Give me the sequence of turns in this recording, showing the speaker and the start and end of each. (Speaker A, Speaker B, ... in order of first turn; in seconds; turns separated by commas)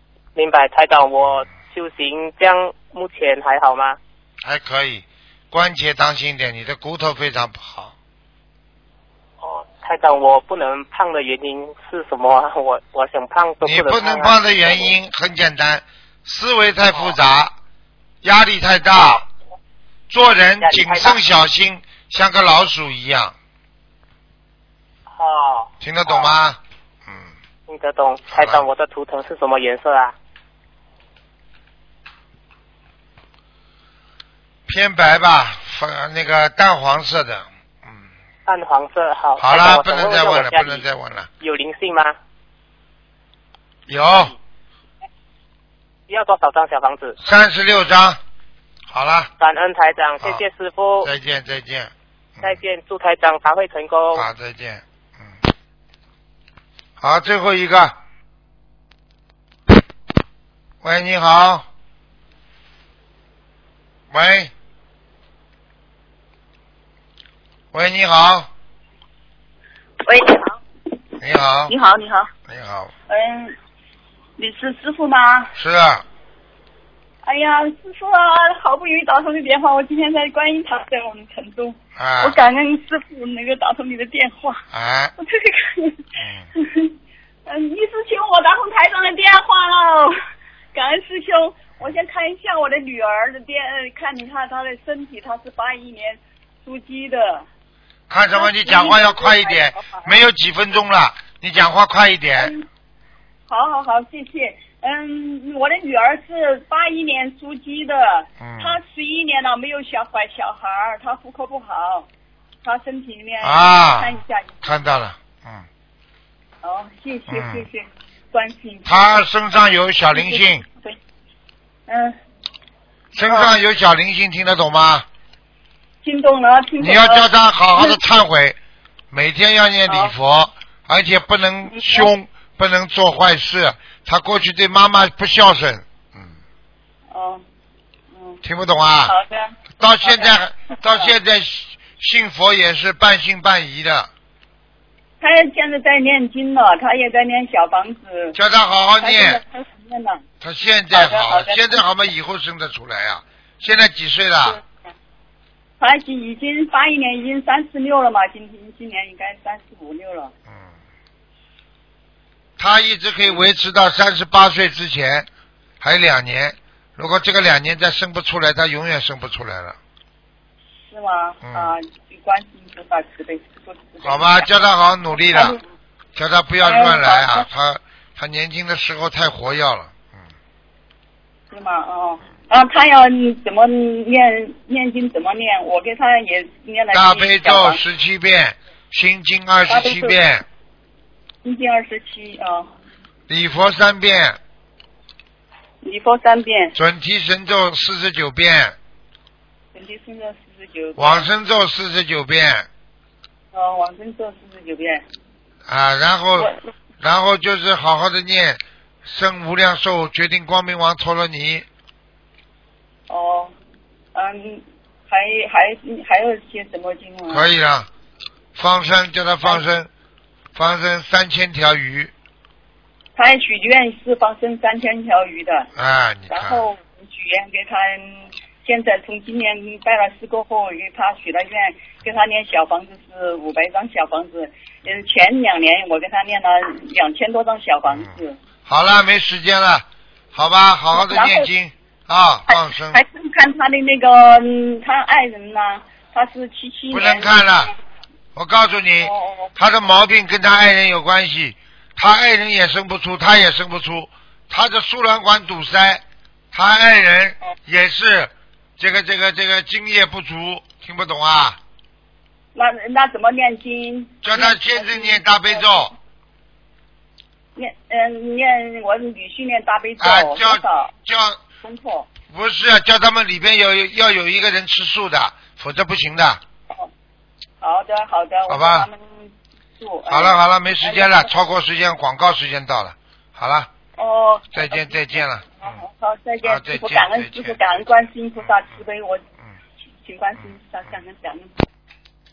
Speaker A: 0.3-4.0, Speaker B: 4.4-7.9, Speaker A: 9.4-14.9, Speaker B: 13.6-17.5, Speaker A: 16.9-17.1, Speaker B: 18.2-19.3, Speaker B: 20.1-23.3, Speaker A: 20.6-21.2, Speaker A: 25.1-26.4, Speaker B: 25.8-27.3, Speaker A: 27.7-30.1, Speaker B: 28.3-28.6, Speaker B: 34.7-38.0, Speaker A: 38.5-40.8, Speaker B: 39.4-41.3, Speaker A: 41.4-42.2, Speaker B: 43.9-44.3, Speaker A: 46.1-47.2, Speaker B: 47.2-48.2, Speaker B: 48.9-49.3, Speaker A: 49.4-51.1, Speaker B: 51.0-52.6, Speaker A: 52.4-54.3, Speaker B: 54.1-55.3, Speaker B: 57.0-58.0, Speaker B: 60.8-61.7, Speaker B: 64.1-64.5, Speaker B: 67.7-68.5, Speaker C: 70.0-70.6, Speaker B: 71.2-71.8, Speaker C: 71.7-72.3, Speaker B: 72.5-72.9, Speaker C: 73.1-73.5, Speaker C: 74.4-75.5, Speaker B: 75.5-76.0, Speaker C: 77.2-84.6, Speaker B: 82.0-82.4, Speaker B: 84.7-85.1, Speaker C: 85.2-86.0, Speaker B: 86.2-86.5, Speaker C: 86.5-86.9, Speaker C: 87.5-90.1, Speaker C: 90.7-97.4, Speaker B: 98.1-102.5, Speaker C: 98.3-100.1, Speaker C: 102.4-102.7, Speaker C: 103.5-112.1, Speaker B: 108.4-108.8, Speaker C: 112.6-114.8, Speaker B: 113.4-115.7, Speaker C: 116.6-119.1, Speaker B: 117.3-117.7, Speaker B: 118.8-120.6, Speaker C: 120.1-121.0, Speaker C: 121.9-122.2, Speaker B: 123.1-125.1, Speaker C: 123.2-123.6, Speaker C: 126.0-128.0, Speaker B: 126.8-128.6, Speaker B: 129.1-136.3, Speaker C: 131.7-132.1, Speaker C: 137.1-137.4, Speaker C: 138.1-138.4, Speaker B: 138.4-139.1, Speaker C: 139.1-141.1, Speaker B: 139.8-144.1, Speaker C: 145.2-148.3, Speaker B: 148.3-149.4, Speaker C: 149.0-150.2, Speaker B: 150.4-154.6, Speaker C: 150.9-151.8, Speaker C: 155.8-160.3, Speaker B: 160.5-160.7, Speaker B: 162.6-165.3, Speaker B: 165.8-169.8, Speaker C: 170.8-174.5, Speaker B: 171.4-171.7, Speaker B: 174.0-175.5, Speaker C: 175.1-175.6, Speaker B: 176.1-180.2, Speaker C: 176.6-177.4, Speaker C: 181.5-187.8, Speaker B: 186.9-190.4, Speaker C: 189.7-190.2, Speaker C: 191.4-192.7, Speaker B: 193.3-194.4, Speaker C: 195.8-196.7, Speaker B: 196.8-198.8, Speaker C: 199.7-201.3, Speaker B: 201.0-202.7, Speaker C: 203.5-205.0, Speaker B: 205.7-211.7, Speaker C: 213.1-213.5, Speaker C: 214.1-217.5, Speaker B: 217.3-217.9, Speaker B: 218.5-219.9, Speaker B: 220.5-222.1, Speaker C: 223.2-225.7, Speaker B: 225.8-226.6, Speaker C: 226.3-238.3, Speaker B: 237.9-243.0, Speaker C: 240.9-241.5, Speaker C: 242.5-247.3, Speaker B: 246.9-247.7, Speaker B: 248.3-261.6, Speaker C: 249.0-249.5, Speaker C: 262.5-265.9, Speaker B: 264.2-265.9, Speaker C: 267.6-270.9, Speaker B: 270.0-271.4, Speaker C: 271.6-272.1, Speaker B: 272.2-276.4, Speaker C: 277.6-279.3, Speaker B: 278.5-278.9, Speaker C: 279.8-281.3, Speaker B: 280.1-283.7, Speaker C: 284.0-285.0, Speaker B: 284.5-285.8, Speaker C: 285.6-289.2, Speaker B: 286.4-287.6, Speaker C: 290.0-291.5